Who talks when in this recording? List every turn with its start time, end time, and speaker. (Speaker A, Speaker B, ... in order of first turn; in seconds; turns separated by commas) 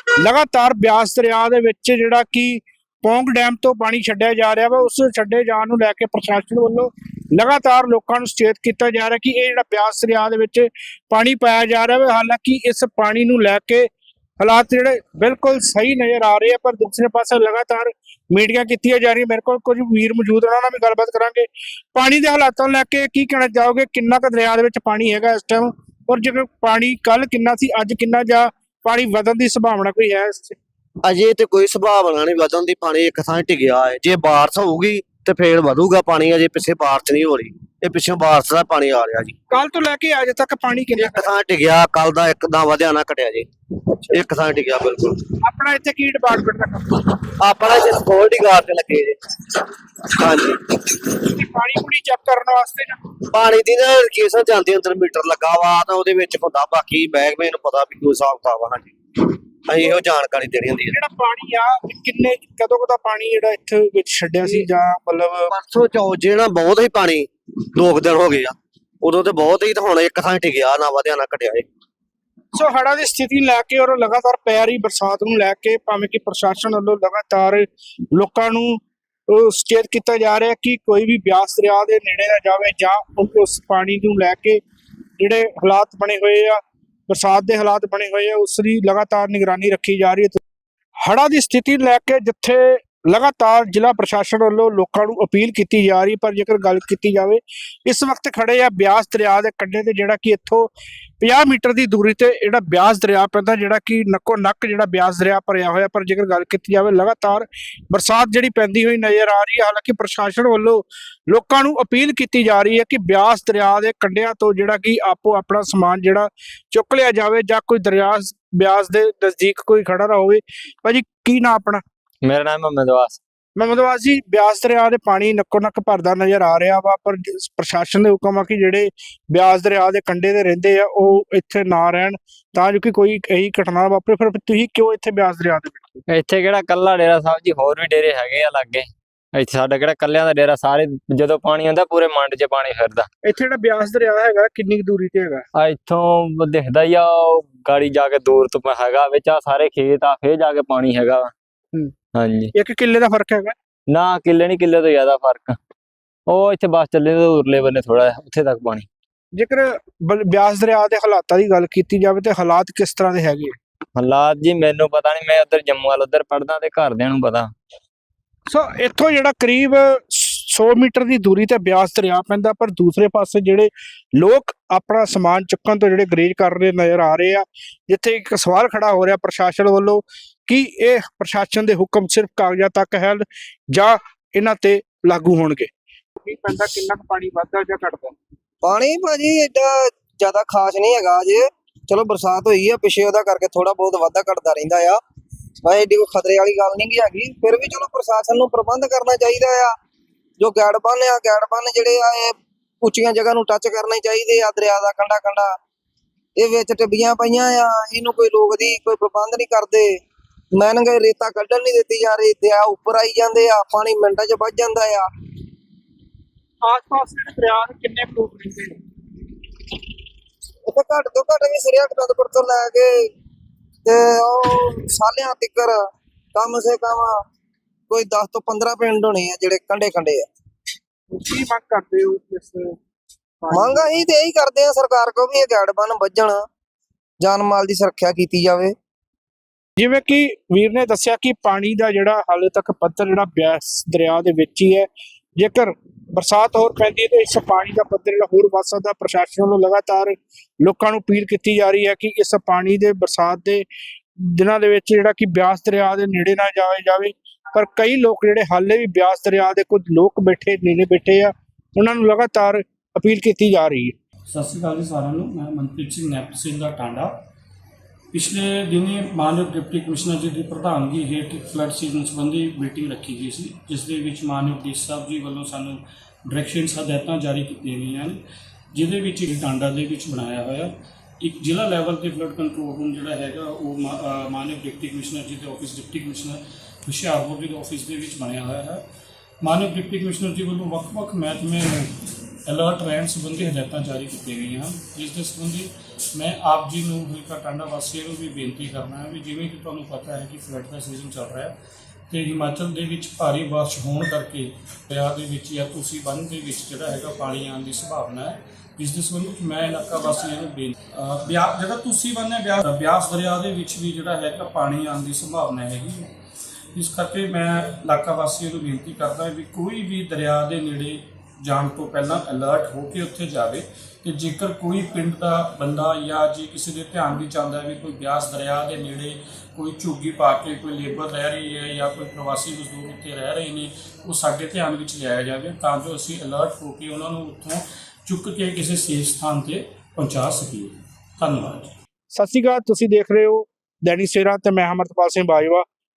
Speaker A: 0.2-13.9, Speaker A: 14.4-30.6, Speaker B: 31.0-39.3, Speaker A: 39.5-41.3, Speaker B: 41.0-43.5, Speaker B: 44.1-45.2, Speaker A: 45.4-47.1, Speaker B: 47.4-51.2, Speaker A: 51.3-53.0, Speaker B: 53.3-61.0, Speaker A: 60.9-65.5, Speaker B: 65.5-71.6, Speaker A: 72.5-84.6, Speaker A: 85.2-90.4, Speaker A: 91.0-121.8, Speaker C: 122.2-123.2, Speaker A: 123.5-136.0, Speaker C: 136.1-143.1, Speaker A: 143.2-145.4, Speaker C: 145.5-151.3, Speaker C: 152.1-152.5, Speaker A: 152.6-153.5, Speaker C: 153.9-155.6, Speaker C: 156.3-158.8, Speaker A: 159.3-163.5, Speaker C: 163.9-167.5, Speaker A: 168.5-188.2, Speaker D: 188.6-195.0, Speaker D: 195.6-199.7, Speaker D: 200.4-205.5, Speaker D: 206.4-209.9, Speaker D: 210.5-215.1, Speaker A: 216.6-218.8, Speaker D: 220.7-223.1, Speaker D: 223.8-225.8, Speaker D: 226.3-227.2, Speaker D: 227.9-230.2, Speaker A: 231.1-232.8, Speaker A: 233.4-234.0, Speaker D: 233.5-236.4, Speaker D: 237.2-238.7, Speaker A: 239.8-253.6, Speaker A: 254.2-263.9, Speaker E: 264.3-267.1, Speaker E: 268.1-278.2, Speaker E: 278.7-288.8, Speaker E: 289.4-291.9, Speaker E: 292.4-301.5, Speaker E: 302.1-316.1, Speaker E: 316.7-341.7, Speaker A: 342.1-345.6